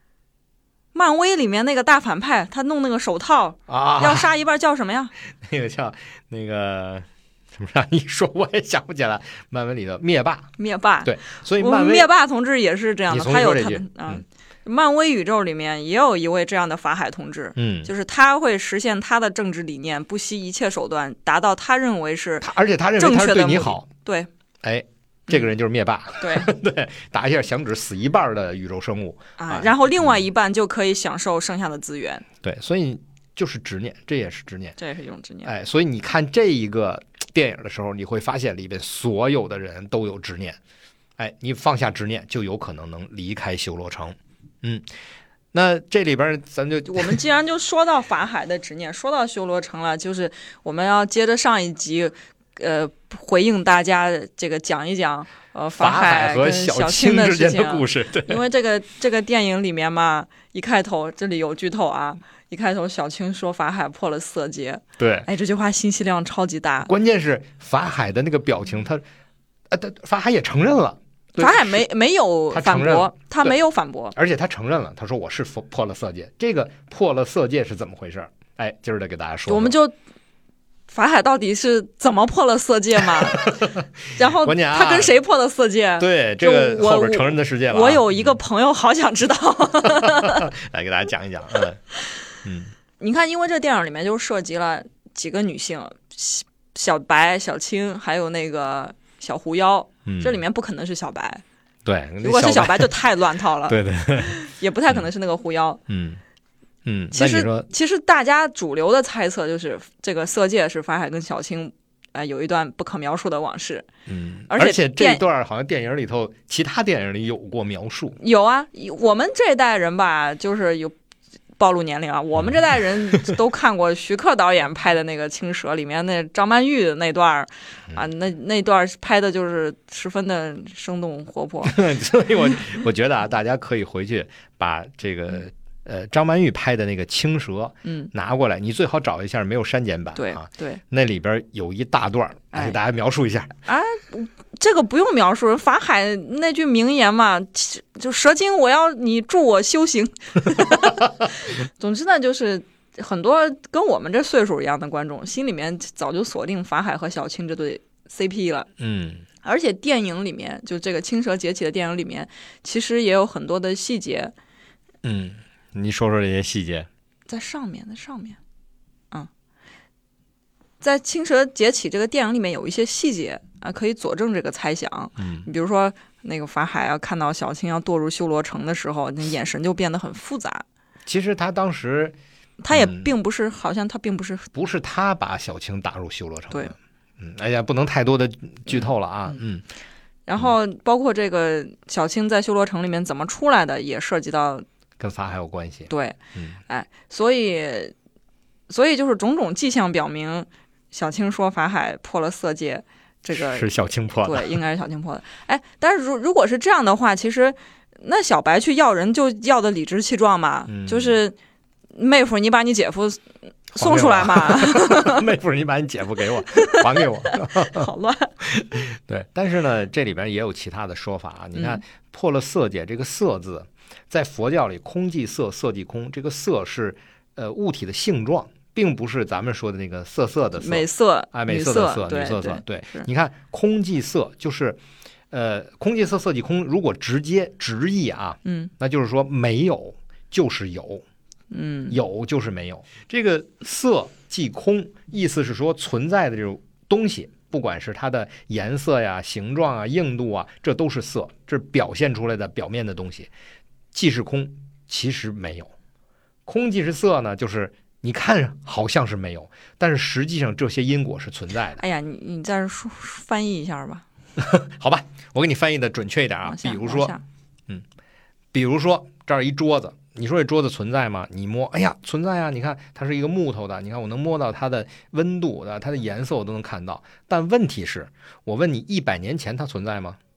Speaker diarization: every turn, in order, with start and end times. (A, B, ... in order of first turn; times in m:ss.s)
0:00.9-0:05.1 A
0:03.7-0:04.3 B
0:05.4-0:10.5 B
0:10.6-0:24.3 A
0:11.0-0:12.1 B
0:13.1-0:14.2 B
0:17.6-0:17.9 B
0:22.4-0:23.9 B
0:24.6-0:30.1 B
0:26.2-0:26.5 A
0:29.4-0:32.3 A
0:32.4-0:34.8 B
0:34.8-0:35.5 A
0:35.4-0:40.6 B
0:41.2-0:44.9 B
0:45.5-0:47.2 B
0:46.8-1:06.9 A
0:55.8-0:58.4 B
1:05.0-1:05.3 B
1:06.9-1:09.0 B
1:09.7-1:11.8 B
1:11.4-1:14.2 A
1:12.5-1:13.5 B
1:14.2-1:19.8 B
1:19.5-1:20.0 A
1:20.9-1:30.5 A
1:23.1-1:23.8 B
1:24.4-1:25.2 B
1:26.0-1:28.4 B
1:29.8-1:31.8 B
1:32.4-1:32.7 B
1:33.0-1:41.4 A
1:40.1-1:40.4 B
1:41.8-1:43.0 B
1:42.2-1:45.8 A
1:43.7-1:44.4 B
1:45.9-1:46.2 B
1:46.8-1:47.7 B
1:47.1-1:53.9 A
1:54.1-1:58.2 B
1:54.5-1:55.2 A
1:58.2-2:00.9 A
2:01.6-2:11.8 A
2:11.7-2:23.5 B
2:17.8-2:18.1 A
2:20.2-2:20.8 A
2:22.5-2:22.8 A
2:23.7-2:38.7 A
2:38.8-2:39.2 B
2:39.4-2:44.3 A
2:45.0-2:46.9 B
2:47.3-2:48.4 A
2:50.8-3:00.6 A
2:55.2-2:55.5 B
3:01.1-3:02.2 B
3:02.6-3:04.5 A
3:02.7-3:03.1 B
3:04.5-3:09.6 B
3:10.3-3:14.6 A
3:15.0-3:16.6 B
3:15.9-3:17.9 A
3:18.7-3:31.4 A
3:23.3-3:24.6 B
3:30.7-3:31.2 B
3:32.0-3:33.2 A
3:33.7-3:37.9 B
3:33.8-3:35.2 A
3:36.5-3:38.3 A
3:38.4-3:54.8 B
3:41.6-3:41.8 A
3:50.6-3:53.1 A
3:55.3-4:01.0 B
3:58.4-3:58.7 A
4:01.5-4:02.0 A
4:01.9-4:13.3 B
4:13.9-4:15.7 B
4:16.5-4:21.8 B
4:21.8-4:24.0 A
4:24.4-4:27.1 B
4:26.4-4:27.2 A
4:28.5-4:40.2 B